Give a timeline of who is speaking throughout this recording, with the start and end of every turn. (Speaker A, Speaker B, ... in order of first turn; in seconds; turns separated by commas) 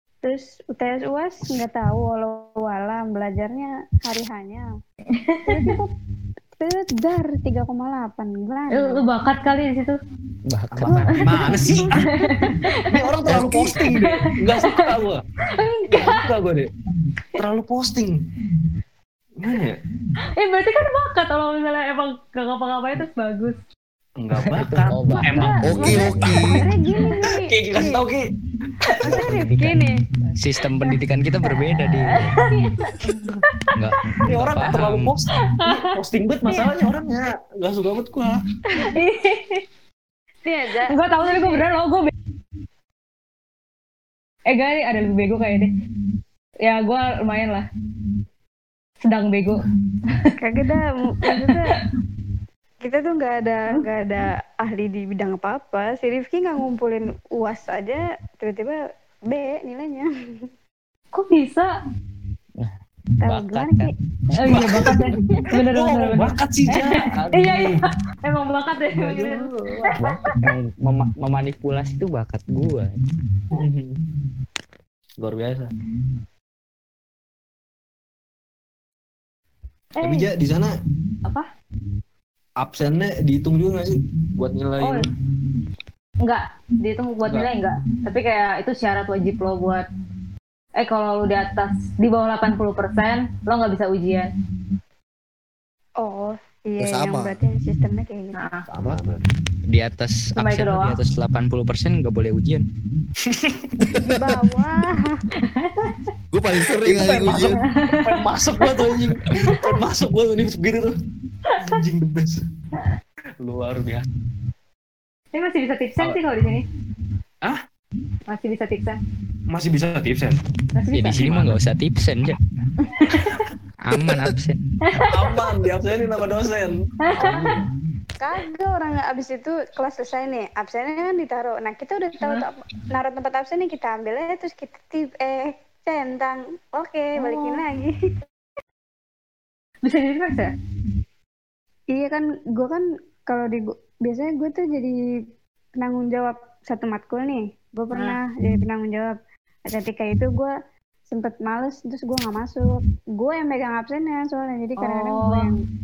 Speaker A: 0.2-4.7, Speaker B: 5.1-5.8, Speaker A: 5.5-5.9, Speaker A: 6.6-9.0, Speaker B: 8.7-10.0, Speaker C: 10.5-11.6, Speaker D: 10.8-15.2, Speaker B: 10.9-11.2, Speaker A: 11.1-11.8, Speaker B: 11.9-13.1, Speaker C: 13.3-13.8, Speaker B: 13.8-14.9, Speaker B: 15.5-16.4, Speaker D: 15.9-16.7, Speaker D: 17.4-18.2, Speaker D: 19.4-19.8, Speaker B: 20.4-23.6, Speaker D: 24.2-26.4, Speaker C: 24.4-26.4, Speaker B: 25.2-26.0, Speaker E: 25.6-26.6, Speaker A: 25.8-28.1, Speaker D: 27.3-28.3, Speaker A: 28.8-30.0, Speaker C: 29.0-29.8, Speaker C: 30.4-32.4, Speaker B: 32.1-33.0, Speaker A: 32.5-32.9, Speaker D: 33.0-33.5, Speaker C: 33.8-35.1, Speaker D: 34.2-38.4, Speaker B: 35.4-36.0, Speaker B: 38.8-39.6, Speaker A: 40.4-41.6, Speaker B: 40.8-42.1, Speaker B: 44.5-45.7, Speaker B: 46.6-47.6, Speaker B: 49.0-50.4, Speaker A: 50.4-51.8, Speaker B: 51.2-51.8, Speaker A: 52.8-60.5, Speaker B: 61.1-61.7, Speaker C: 62.6-63.9, Speaker A: 63.2-65.4, Speaker B: 64.3-70.3, Speaker D: 64.5-65.1, Speaker D: 65.7-67.8, Speaker A: 69.1-69.9, Speaker C: 70.0-72.9, Speaker D: 73.5-74.0, Speaker D: 75.2-75.7, Speaker D: 80.0-80.7, Speaker D: 82.6-85.0, Speaker B: 84.8-85.0, Speaker B: 86.2-89.8, Speaker D: 87.2-87.5, Speaker B: 90.8-94.3, Speaker A: 96.0-98.4, Speaker E: 96.8-97.4, Speaker B: 98.3-98.7, Speaker D: 98.7-99.2, Speaker C: 99.7-102.7, Speaker B: 100.4-101.0, Speaker D: 103.2-103.7, Speaker E: 104.0-104.3, Speaker A: 104.1-105.2, Speaker B: 105.4-106.1, Speaker E: 106.3-107.6, Speaker D: 106.6-111.0, Speaker B: 107.6-108.2, Speaker B: 109.3-109.8, Speaker B: 111.4-111.8, Speaker D: 111.6-112.5, Speaker D: 113.4-114.1, Speaker B: 115.3-116.7, Speaker B: 118.3-119.0, Speaker D: 119.5-120.4, Speaker B: 120.8-121.2, Speaker C: 120.9-122.4, Speaker D: 121.1-121.6, Speaker B: 123.0-123.4, Speaker D: 123.0-123.5, Speaker C: 123.8-125.1, Speaker B: 124.9-125.3, Speaker D: 125.0-127.6, Speaker B: 127.0-127.6, Speaker A: 128.2-137.9, Speaker B: 132.2-132.5, Speaker B: 137.2-137.6, Speaker B: 139.8-140.5, Speaker A: 141.9-144.9, Speaker A: 145.8-150.5, Speaker B: 147.9-148.2, Speaker A: 151.1-155.6, Speaker B: 154.8-155.5